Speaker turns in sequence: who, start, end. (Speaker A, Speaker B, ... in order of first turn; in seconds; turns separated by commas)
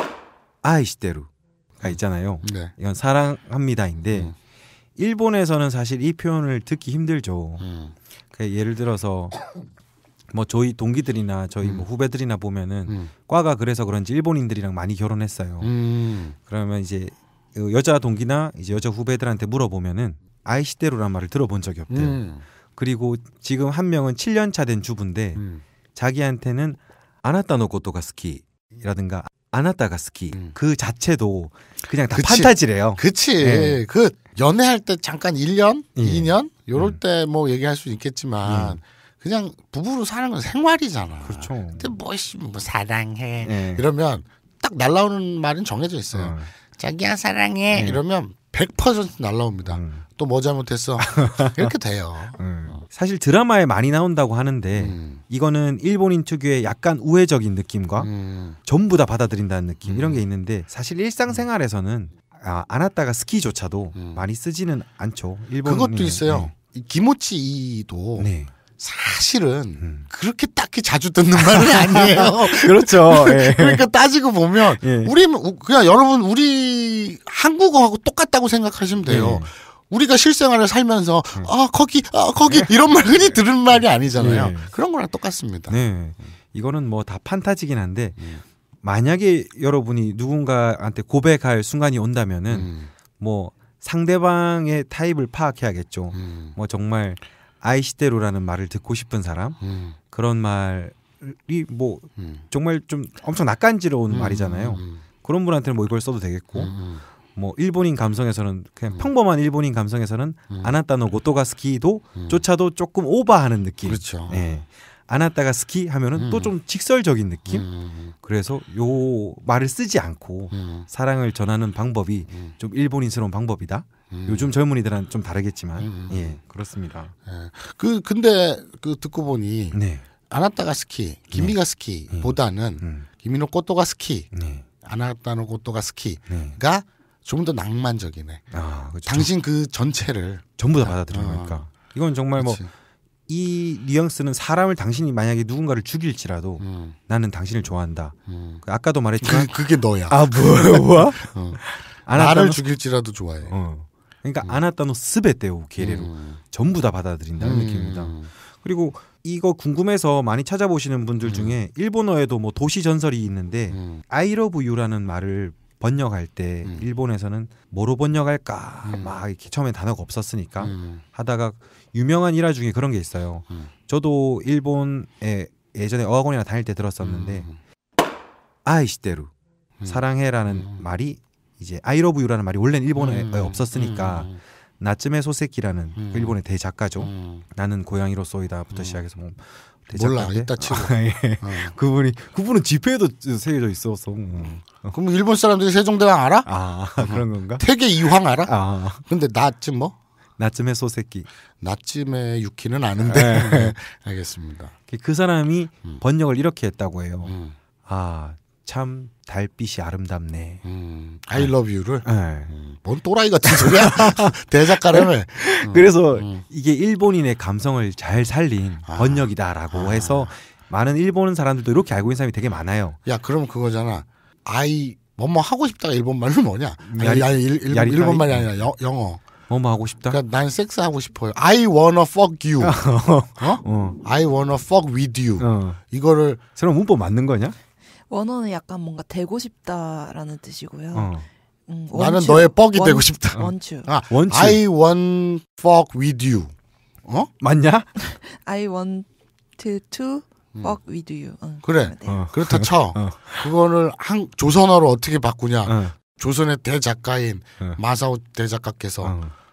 Speaker A: 0.6-1.3, Speaker A: 1.8-4.3, Speaker B: 1.8-2.7, Speaker A: 5.0-7.7, Speaker B: 7.6-7.9, Speaker A: 8.3-9.4, Speaker A: 10.3-15.7, Speaker B: 15.6-16.4, Speaker A: 16.4-22.2, Speaker B: 21.9-22.4, Speaker A: 22.8-25.4, Speaker B: 25.4-25.6, Speaker A: 25.9-33.8, Speaker B: 32.1-52.8, Speaker A: 36.0-37.0, Speaker A: 38.5-38.8, Speaker A: 41.2-41.9, Speaker A: 43.4-43.9, Speaker A: 46.1-46.5, Speaker A: 47.7-48.0, Speaker A: 49.7-50.0, Speaker A: 51.0-51.7, Speaker A: 52.4-58.1, Speaker B: 54.8-55.2, Speaker B: 58.0-58.6, Speaker A: 58.6-66.5, Speaker B: 59.9-60.2, Speaker B: 64.0-64.2, Speaker B: 65.6-85.8, Speaker A: 68.2-68.5, Speaker A: 69.8-70.1, Speaker A: 71.4-73.8, Speaker A: 74.8-75.1, Speaker A: 79.1-79.5, Speaker A: 84.2-84.7, Speaker A: 85.7-88.2, Speaker A: 88.8-99.6, Speaker B: 92.5-92.9, Speaker B: 96.1-96.6, Speaker B: 99.6-100.0, Speaker A: 100.1-106.7, Speaker B: 104.1-105.0, Speaker B: 106.5-107.0, Speaker A: 107.4-117.7, Speaker B: 113.9-114.5, Speaker B: 116.2-116.5, Speaker B: 117.5-118.1, Speaker A: 118.2-127.1, Speaker B: 120.5-120.9, Speaker B: 124.1-124.5, Speaker B: 125.8-126.4, Speaker B: 127.3-129.8, Speaker A: 129.7-130.0, Speaker B: 130.3-138.4, Speaker A: 131.3-131.6, Speaker A: 132.1-133.1, Speaker A: 134.3-134.7, Speaker A: 136.3-136.6, Speaker A: 138.5-139.3, Speaker B: 139.1-141.6, Speaker A: 140.6-142.6, Speaker B: 142.4-142.7, Speaker A: 143.3-149.6, Speaker B: 146.6-147.0, Speaker B: 148.3-148.6, Speaker B: 149.2-151.6, Speaker A: 150.1-152.6, Speaker B: 152.1-153.6, Speaker A: 153.5-177.5, Speaker B: 155.8-156.4, Speaker B: 157.4-158.3, Speaker B: 161.2-161.6, Speaker B: 163.7-164.0, Speaker B: 168.8-169.1, Speaker B: 170.6-171.0, Speaker B: 177.0-177.6, Speaker A: 178.7-179.3, Speaker B: 179.8-180.8, Speaker A: 179.9-194.9, Speaker B: 183.0-184.4, Speaker B: 186.0-186.4, Speaker B: 187.0-187.4, Speaker B: 188.7-189.0, Speaker B: 189.9-191.8, Speaker B: 194.4-200.0, Speaker A: 196.5-197.7, Speaker A: 198.5-199.0, Speaker A: 200.4-201.3, Speaker B: 201.6-204.7, Speaker A: 203.0-203.8, Speaker A: 204.9-207.3, Speaker B: 207.2-207.6, Speaker A: 207.8-210.6, Speaker B: 210.6-216.4, Speaker A: 212.0-212.5, Speaker A: 213.4-223.0, Speaker B: 218.9-220.3, Speaker B: 223.1-229.2, Speaker A: 226.9-228.7, Speaker A: 229.5-230.2, Speaker B: 230.1-232.8, Speaker A: 232.6-234.0, Speaker B: 233.4-236.4, Speaker A: 235.4-235.8, Speaker A: 236.6-237.6, Speaker C: 238.1-241.1, Speaker A: 240.9-241.3, Speaker C: 241.7-243.9, Speaker B: 241.9-246.5, Speaker A: 244.1-244.6, Speaker B: 247.1-247.3, Speaker A: 247.4-247.9, Speaker C: 248.0-252.2, Speaker B: 251.6-259.2, Speaker A: 252.1-253.4, Speaker A: 255.7-255.9, Speaker A: 259.0-259.3